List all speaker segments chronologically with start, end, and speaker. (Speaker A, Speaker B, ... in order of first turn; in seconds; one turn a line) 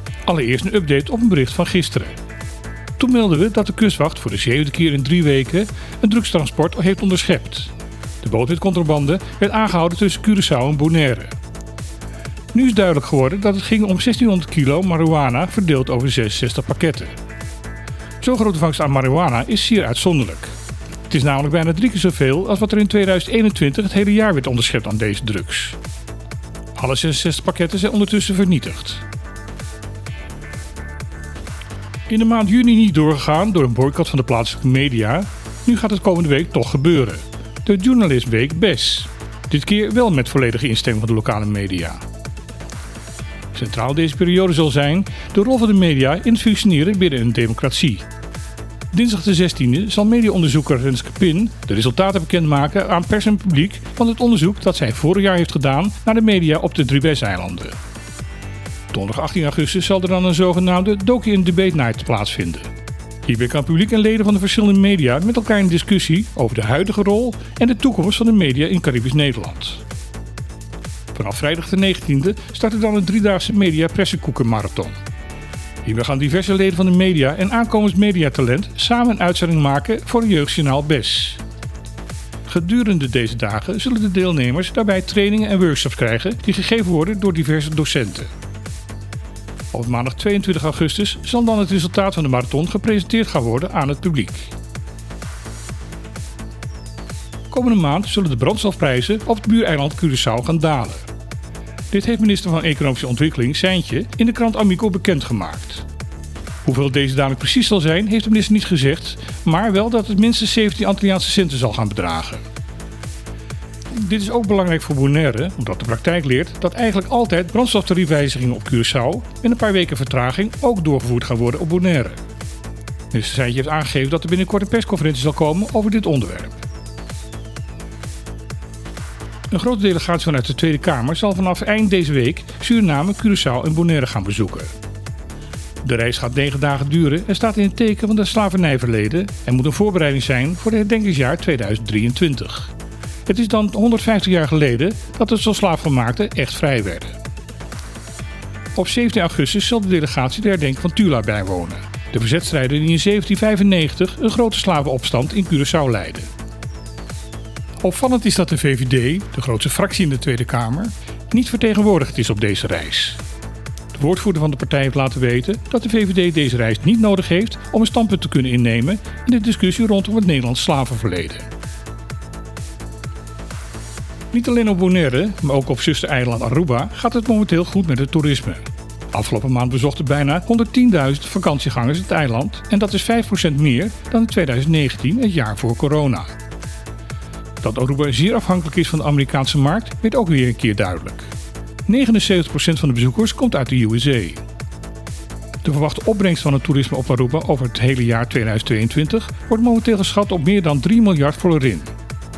Speaker A: 0.3-2.2
Speaker A: 3.0-11.3
Speaker A: 12.5-17.1
Speaker A: 18.2-20.5
Speaker A: 21.1-25.8
Speaker A: 26.8-29.0
Speaker A: 32.1-42.0
Speaker A: 43.5-48.0
Speaker A: 48.9-57.8
Speaker A: 58.9-62.7
Speaker A: 63.2-69.8
Speaker A: 71.1-75.0
Speaker A: 75.8-81.4
Speaker A: 82.5-88.3
Speaker A: 89.7-94.5
Speaker A: 97.5-101.1
Speaker A: 101.9-105.9
Speaker A: 106.6-112.4
Speaker A: 113.9-122.2
Speaker A: 123.1-126.6
Speaker A: 129.5-134.7
Speaker A: 135.8-142.7
Speaker A: 143.2-147.2
Speaker A: 148.8-156.3
Speaker A: 157.8-163.2
Speaker A: 163.9-171.5
Speaker A: 174.3-186.3
Speaker A: 187.6-191.3
Speaker A: 191.9-194.4
Speaker A: 195.6-201.9